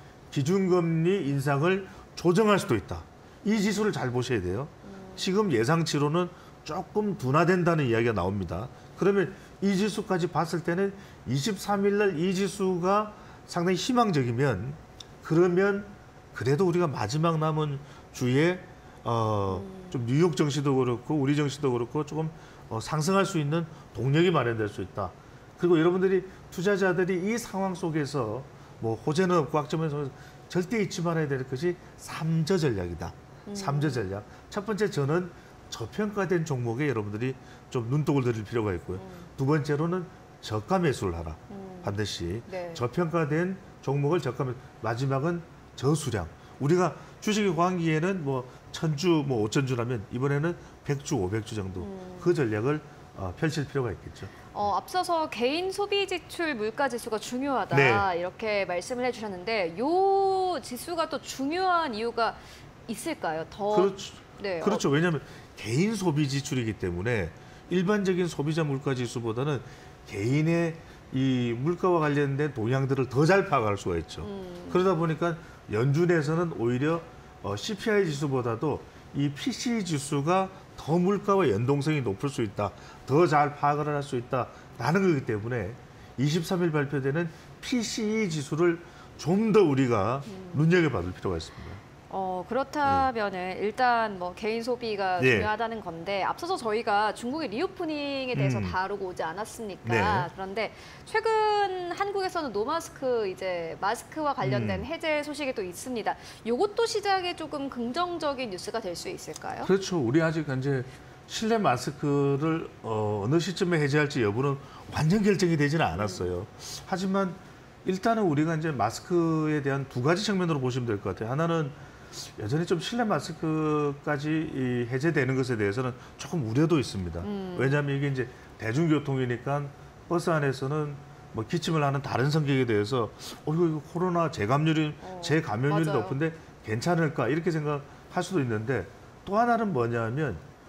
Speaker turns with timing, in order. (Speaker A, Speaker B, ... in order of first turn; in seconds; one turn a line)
Speaker A: 0.3-54.5
Speaker B: 4.8-5.3
Speaker B: 19.5-20.0
Speaker B: 33.5-34.1
Speaker B: 39.0-39.3
Speaker B: 41.5-42.8
Speaker B: 51.8-52.3
Speaker B: 54.5-64.8
Speaker A: 57.7-58.1
Speaker A: 63.7-91.8
Speaker B: 74.2-74.9
Speaker B: 90.3-90.7
Speaker B: 92.1-109.7
Speaker A: 92.8-93.1
Speaker A: 95.2-95.5
Speaker A: 98.3-98.8
Speaker A: 99.8-100.3
Speaker A: 104.4-104.9
Speaker A: 109.6-140.4
Speaker B: 116.0-116.3
Speaker B: 127.2-127.8
Speaker B: 135.0-136.2